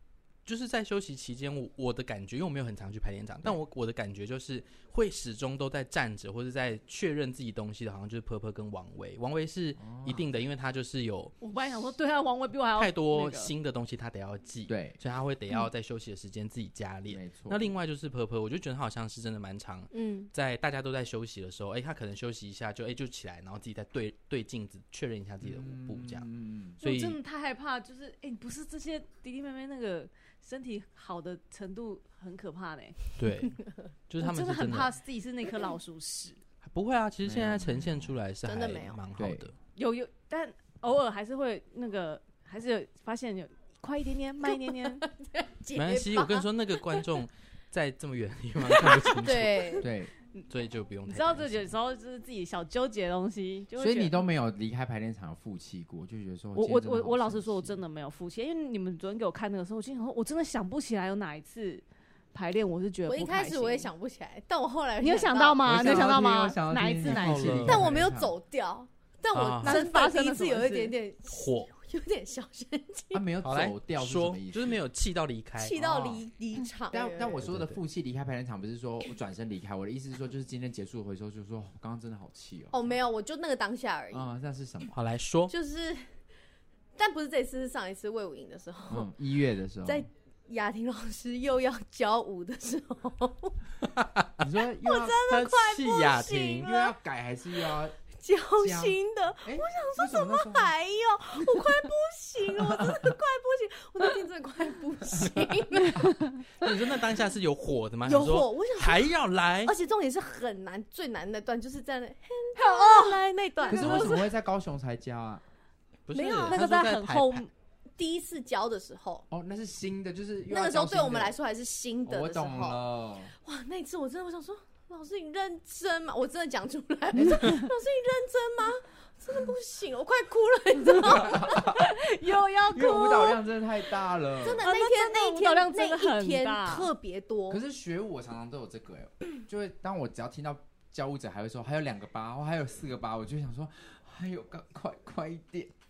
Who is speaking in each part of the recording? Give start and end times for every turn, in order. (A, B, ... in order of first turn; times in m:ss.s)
0:00.4-0:11.3 A
0:09.8-0:10.3 B
0:11.4-0:13.5 C
0:12.8-0:26.2 A
0:14.7-0:15.0 B
0:17.1-0:17.7 B
0:19.9-0:20.3 D
0:25.4-0:26.8 B
0:26.8-0:27.2 A
0:26.8-0:33.0 C
0:33.2-0:34.9 A
0:34.2-0:36.4 C
0:36.6-0:39.5 A
0:37.2-0:38.2 B
0:38.4-0:39.0 D
0:39.2-0:39.5 B
0:39.8-0:45.0 C
0:45.0-0:47.0 D
0:45.7-0:49.9 A
0:48.7-0:49.9 D
0:49.8-0:50.1 B
0:50.5-0:51.7 A
0:51.0-0:54.2 C
0:53.8-0:57.8 B
0:56.5-1:03.9 C
1:03.1-1:06.1 D
1:05.0-1:07.7 C
1:05.6-1:08.3 B
1:07.0-1:07.9 A
1:07.6-1:13.2 D
1:09.3-1:09.8 A
1:09.6-1:11.0 C
1:11.2-1:11.7 A
1:13.1-1:14.8 B
1:13.4-1:16.1 A
1:15.6-1:17.5 D
1:15.8-1:16.2 B
1:16.9-1:23.0 B
1:17.4-1:17.8 A
1:22.7-1:24.3 D
1:24.1-1:24.9 B
1:24.9-1:25.5 A
1:25.5-1:26.1 D
1:27.0-1:29.1 D
1:28.9-1:30.1 B
1:29.8-1:33.6 D
1:33.8-1:34.4 A
1:34.4-1:35.3 B
1:34.8-1:36.9 D
1:35.3-1:36.7 A
1:36.6-1:38.0 B
1:38.2-1:46.7 D
1:38.6-1:40.7 B
1:42.6-1:43.1 B
1:45.1-1:46.2 B
1:46.6-1:49.7 A
1:48.0-1:49.1 D
1:49.6-1:54.3 D
1:52.6-1:54.0 C
1:53.7-1:55.4 B
1:56.1-1:57.5 A
1:56.2-1:57.5 C
1:56.2-1:56.6 D
1:58.0-1:59.2 D
1:59.3-2:01.4 B
2:00.5-2:02.8 D
2:02.0-2:03.3 B
2:03.4-2:11.8 D
2:11.0-2:12.0 B
2:11.5-2:13.4 C
2:12.7-2:14.6 B
2:14.4-2:17.6 D
2:14.6-2:16.9 C
2:17.5-2:25.7 B